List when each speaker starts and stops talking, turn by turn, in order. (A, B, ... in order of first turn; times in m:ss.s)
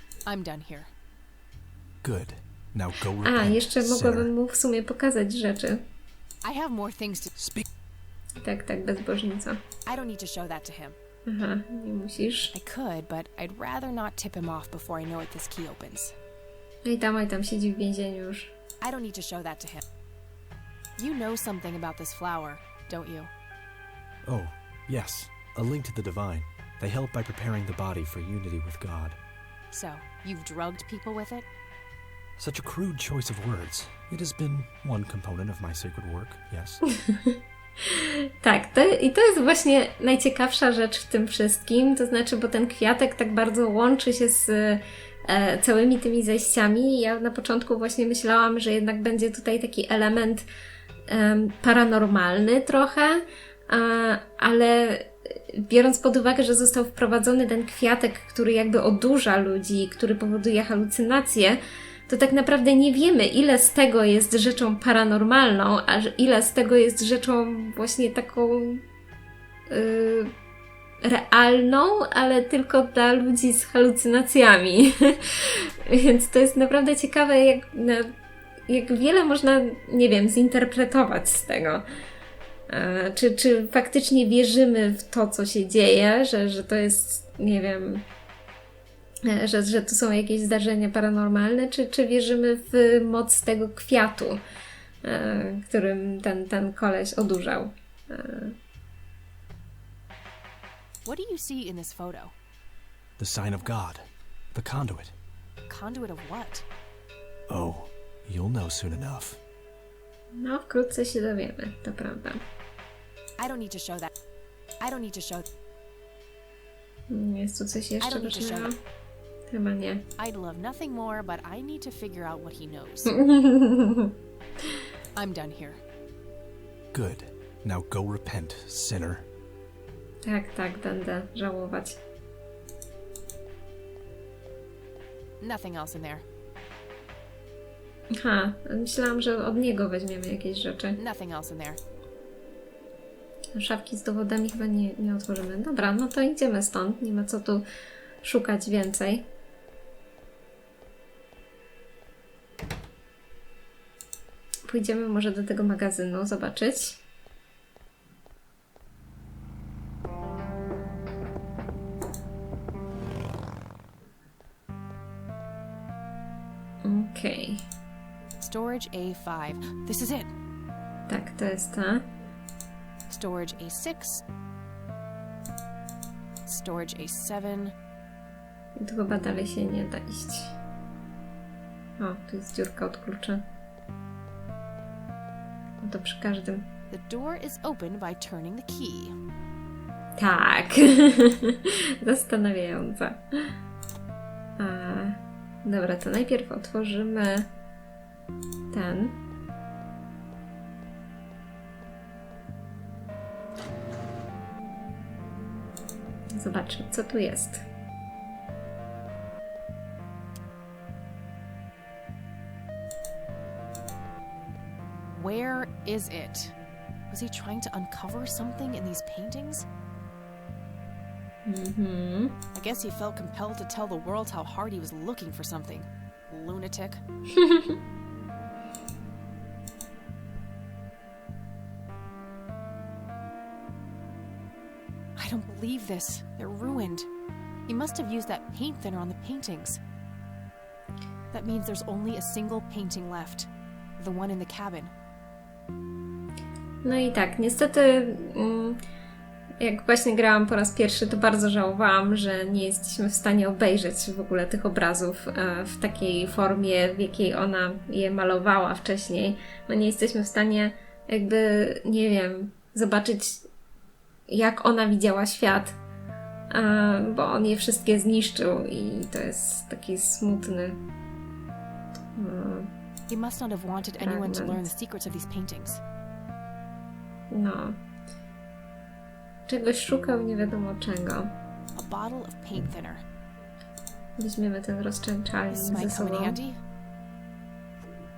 0:00.3-0:00.9 A
0:02.0-0:04.3 B
0:03.2-0:05.8 C
0:06.4-0:07.3 A
0:07.4-0:07.7 B
0:08.4-0:09.6 C
0:09.9-0:11.0 A
0:11.3-0:12.5 C
0:12.5-0:16.2 A
0:16.8-0:18.5 C
0:18.8-0:19.8 A
0:21.0-0:23.3 A
0:24.2-0:29.2 B
0:29.7-0:31.5 A
0:32.4-0:36.8 B
0:36.9-0:50.4 C
0:51.1-1:08.8 C
1:09.7-1:10.3 C
1:11.0-1:18.1 C
1:18.7-1:21.8 C
1:22.7-1:28.0 C
1:29.2-1:34.4 C
1:35.0-1:38.6 C
1:41.0-1:42.3 A
1:43.2-1:45.2 B
1:45.7-1:46.6 A
1:47.5-1:49.4 B
1:50.4-1:52.4 C
1:53.4-1:54.1 A
1:54.8-1:55.5 A
1:57.1-1:58.8 C
1:58.0-1:58.7 A
1:59.5-2:00.0 C
2:00.2-2:03.2 A
2:03.1-2:04.1 C
2:05.2-2:05.8 A
2:06.9-2:09.3 B
2:10.2-2:12.0 C
2:15.4-2:16.2 A
2:18.2-2:21.0 C
2:21.0-2:21.8 A
2:23.6-2:27.6 C
2:28.2-2:29.3 C
2:34.7-2:37.0 C
2:46.8-2:47.6 C
2:48.4-2:50.3 A
2:51.1-2:52.0 C
2:53.1-2:54.2 A
2:56.5-2:57.7 A
2:58.8-3:00.6 C
3:02.0-3:03.5 C
3:05.8-3:06.7 C
3:06.9-3:09.2 A
3:10.2-3:13.2 C
3:14.6-3:17.5 C
3:18.7-3:19.2 C
3:26.3-3:27.6 C
3:35.1-3:36.6 A
3:37.1-3:39.6 A
3:41.5-3:42.4 C
3:42.6-3:47.0 A
3:47.3-3:47.8 C
3:55.2-3:57.1 A
3:57.7-3:59.8 A
4:01.3-4:04.9 A
4:06.8-4:08.8 C
4:09.6-4:23.5 C
4:24.3-4:25.8 C
4:26.5-4:30.8 C
4:32.2-4:32.7 C
4:33.1-4:35.8 A
4:34.0-4:34.7 C
4:37.3-4:37.8 C
4:39.5-4:41.3 C
4:41.8-4:43.0 A
4:44.2-4:46.4 C
4:45.5-4:46.6 A